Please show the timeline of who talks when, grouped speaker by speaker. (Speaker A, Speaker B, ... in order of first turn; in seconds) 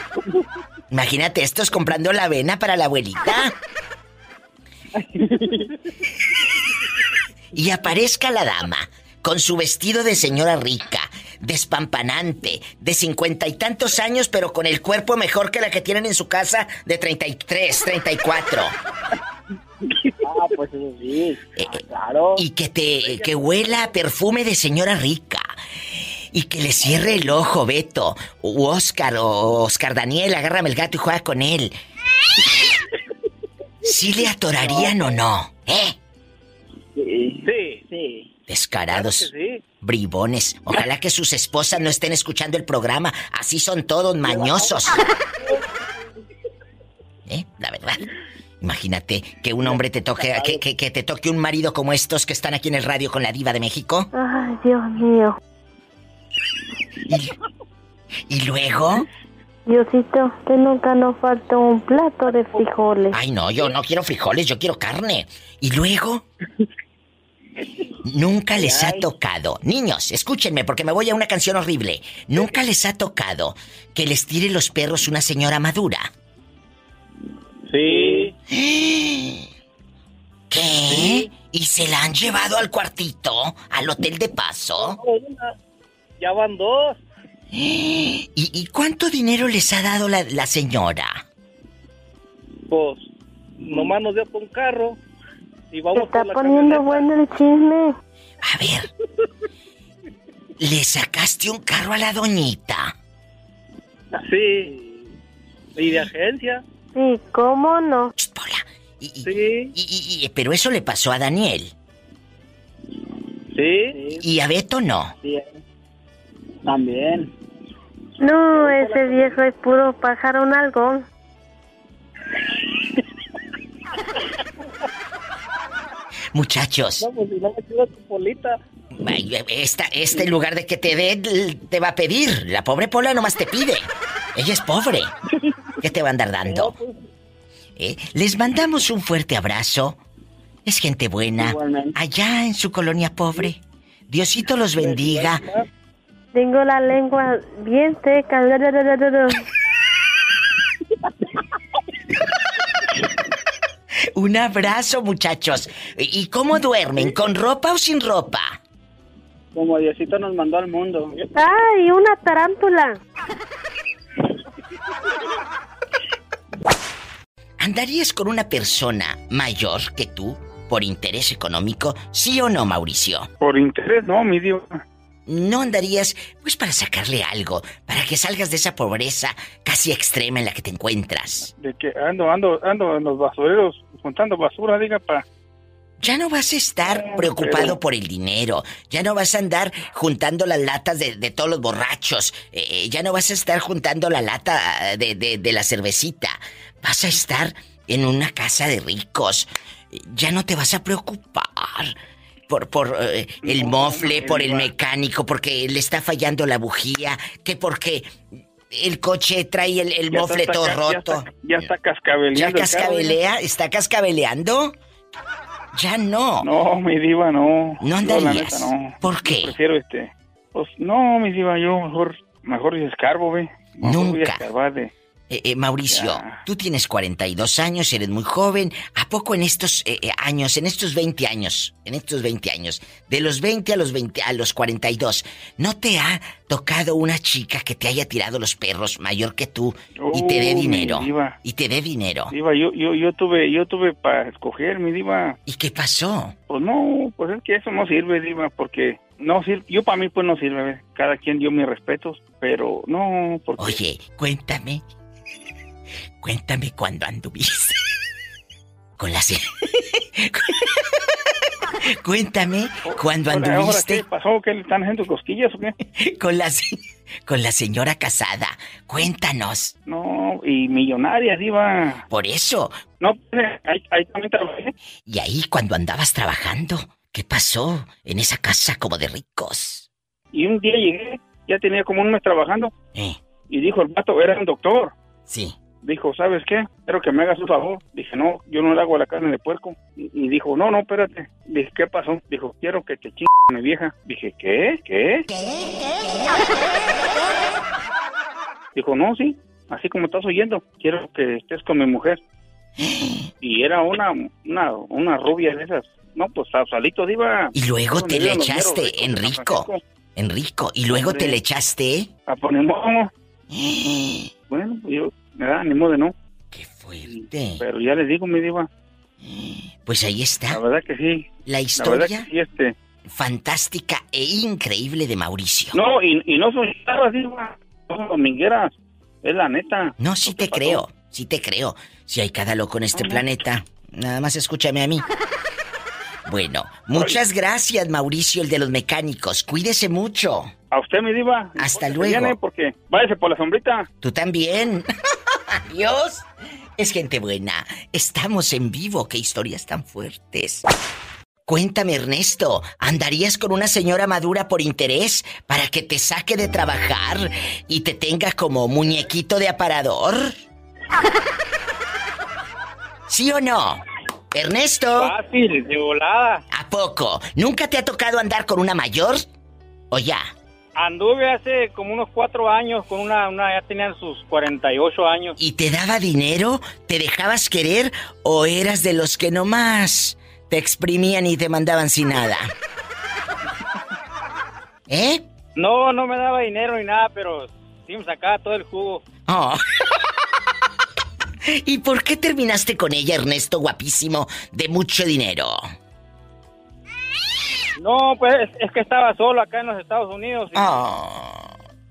Speaker A: 0.9-3.6, 7.5-18.8, 21.6-21.8, 22.4-25.5, 26.3-31.8, 33.8-36.0, 38.5-45.0, 47.3-48.0, 48.6-54.1, 57.1-57.4, 58.3-59.1, 63.1-66.2, 68.0-76.1, 78.5-79.5, 80.5-85.0, 87.5-91.2, 98.4-98.9, 100.6-102.9, 108.2-111.7, 114.2-115.2, 126.3-127.1, 129.0-135.2, 135.8-136.8, 137.8-140.0, 140.7-145.5, 154.2-158.6, 167.6-173.3, 175.3-181.5, 186.0-201.9, 202.5-208.2, 208.7-211.7, 212.3-214.8, 215.7-216.5, 217.8-219.5, 223.8-224.4, 225.3-242.3, 245.5-246.4, 253.6-254.9, 256.2-257.8, 259.0-260.8, 261.8-264.0, 265.9-269.8, 272.1-272.8, 275.1-279.9, 282.9-283.2, 285.3-285.6, 295.3-296.5, 302.8-303.2, 307.5-312.1, 313.5-314.3, 316.5-317.6, 319.2-320.6, 321.4-322.3, 323.1-325.8, 330.0-335.1, 336.3-340.5, 341.6-342.4, 344.0-344.9, 345.5-350.6, 351.5-360.4, 363.1-363.8, 364.3-365.1, 366.5-369.3, 369.9-370.3, 375.4-382.5, 384.9-385.2, 389.3-389.6, 391.5-395.6, 400.5-401.5
Speaker B: 20.2-22.4, 34.6-35.1, 37.0-38.3, 44.2-44.8, 49.6-50.6, 68.6-69.1, 77.8-78.3, 113.8-114.2, 115.2-115.5, 116.7-117.3, 118.5-119.3, 141.4-142.0, 144.8-145.4
Speaker C: 54.1-55.4, 59.7-63.2, 95.9-98.0, 107.0-108.1, 118.2-121.1, 146.3-149.4, 161.4-163.0
Speaker D: 173.4-174.8, 181.5-185.2, 186.9-187.8, 203.4-204.7, 210.1-213.2, 216.4-224.9, 225.9-226.4, 240.0-241.4, 242.3-245.4, 246.5-253.8, 262.9-265.8, 269.9-272.0, 273.0-274.7, 280.3-282.7, 283.5-284.9, 285.8-295.3, 298.8-302.2, 303.4-309.8, 310.9-311.4, 312.3-313.1, 314.5-316.1, 317.1-318.7, 320.5-322.8, 325.7-330.8, 333.0-333.2, 340.7-343.9
Speaker E: 365.0-366.4, 370.8-375.4, 385.6-389.1, 397.8-400.8